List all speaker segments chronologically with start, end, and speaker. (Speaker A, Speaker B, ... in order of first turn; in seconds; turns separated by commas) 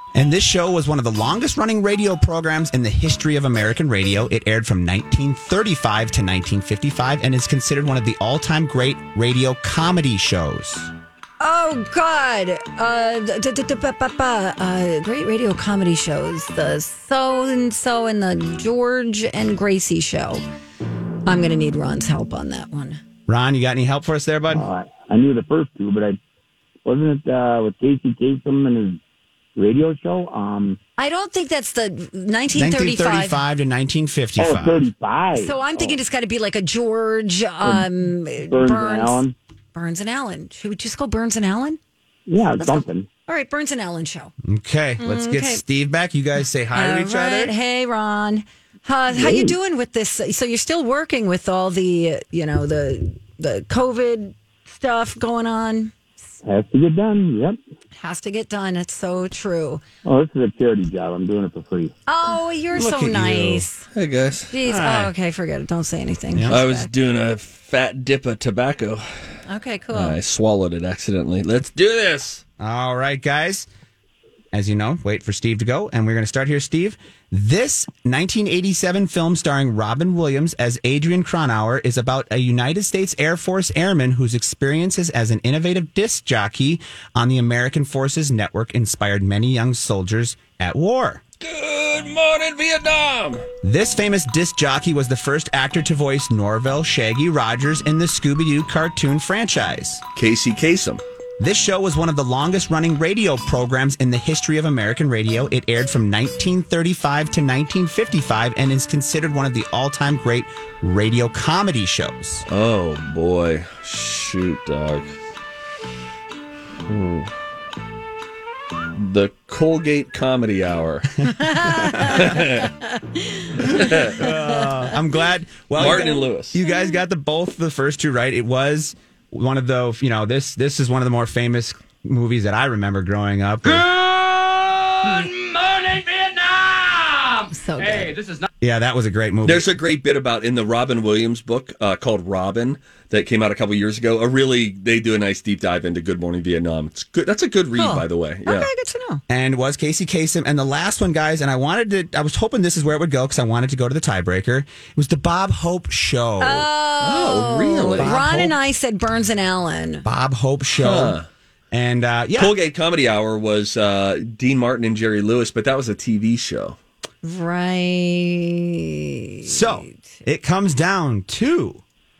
Speaker A: 0.1-10.9, Speaker B: 11.4-20.4, Speaker B: 21.3-23.0, Speaker A: 23.3-24.7, Speaker C: 24.5-26.2, Speaker C: 26.9-29.0, Speaker C: 29.6-30.8, Speaker B: 31.0-33.4, Speaker A: 32.5-34.8, Speaker C: 34.4-36.0, Speaker B: 35.4-39.2, Speaker C: 37.6-38.0, Speaker C: 38.5-39.3, Speaker B: 39.8-41.8, Speaker C: 42.3-43.1, Speaker B: 42.6-44.3, Speaker A: 44.4-47.5, Speaker B: 45.0-45.6, Speaker B: 46.7-55.9, Speaker C: 49.1-49.5, Speaker C: 56.4-57.6, Speaker B: 58.0-59.8, Speaker C: 60.0-61.9, Speaker B: 62.1-63.9, Speaker A: 62.7-63.6, Speaker D: 63.9-64.5, Speaker B: 64.5-66.9, Speaker A: 64.7-65.1, Speaker A: 66.3-66.6, Speaker D: 66.5-69.1, Speaker B: 69.5-70.2, Speaker D: 69.9-72.4, Speaker A: 72.6-73.7, Speaker A: 74.5-91.2, Speaker D: 91.4-93.5, Speaker A: 93.6-100.0, Speaker D: 100.2-101.0, Speaker A: 101.4-112.5, Speaker D: 112.5-115.1, Speaker D: 116.9-117.3, Speaker D: 119.0-121.2, Speaker B: 121.3-123.5, Speaker A: 121.6-122.4, Speaker D: 122.0-122.7, Speaker D: 123.6-124.3, Speaker A: 123.7-133.9, Speaker B: 124.2-124.7, Speaker D: 125.8-126.5, Speaker B: 126.6-127.0, Speaker E: 133.7-138.5, Speaker B: 137.5-138.2, Speaker A: 138.6-139.7, Speaker D: 139.4-148.7, Speaker B: 147.8-149.2, Speaker A: 149.3-156.7, Speaker B: 156.4-160.1, Speaker D: 157.0-158.2, Speaker A: 158.0-158.6, Speaker A: 160.0-161.2, Speaker D: 160.8-161.3, Speaker A: 161.7-162.6, Speaker D: 162.4-166.8, Speaker B: 167.2-170.0, Speaker A: 169.4-171.8